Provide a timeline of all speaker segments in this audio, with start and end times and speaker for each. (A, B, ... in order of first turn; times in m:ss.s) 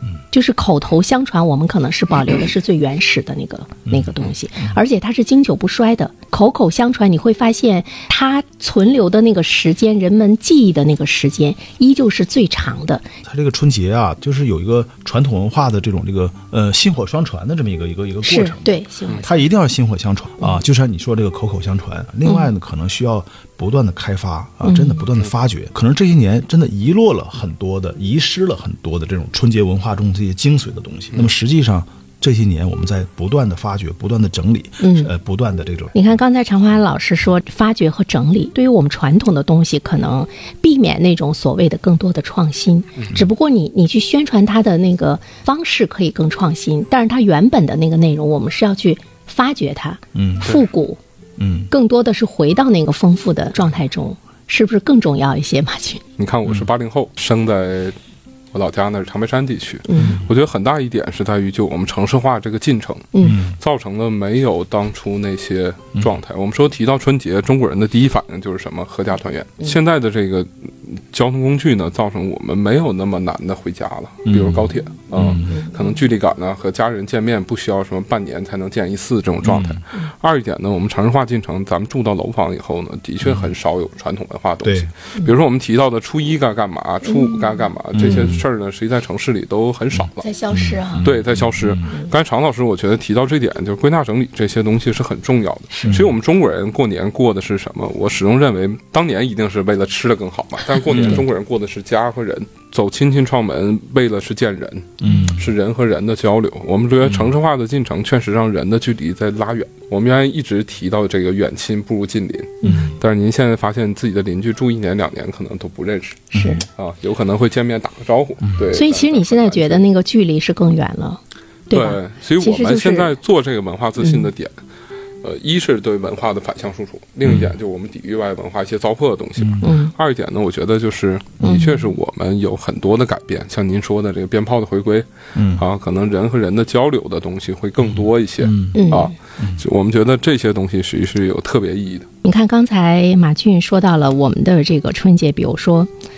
0:00.3-0:13.1 A
0:13.2-0:36.0 B
0:18.2-0:19.5 A
0:24.6-0:25.0 A
0:34.8-0:35.1 A
0:35.9-0:51.0 A
0:50.1-0:50.5 B
0:51.4-0:51.7 B
0:51.7-0:56.0 A
0:56.2-0:58.0 C
0:58.5-1:30.2 C
0:59.9-1:00.2 A
1:03.1-1:03.4 A
1:03.2-1:03.6 B
1:14.2-1:15.5 B
1:15.4-1:16.0 A
1:19.4-1:19.8 B
1:24.6-1:24.9 B
1:27.0-1:27.5 A
1:27.9-1:28.4 B
1:30.2-1:31.1 A
1:30.5-1:31.9 B
1:31.0-1:59.8 C
1:40.9-1:41.2 B
1:40.9-1:41.2 A
1:45.0-1:45.5 B
1:47.0-1:47.3 B
1:52.6-1:52.9 A
1:52.6-1:53.0 B
1:56.3-1:56.6 B
1:56.3-1:56.6 A
1:58.7-2:03.1 A
2:01.7-2:04.5 C
2:04.0-2:04.3 A
2:05.2-2:22.1 C
2:07.2-2:07.5 B
2:09.6-2:09.9 A
2:11.4-2:11.7 A
2:15.4-2:15.6 B
2:17.8-2:18.8 B
2:18.7-2:19.1 A
2:22.2-2:25.9 A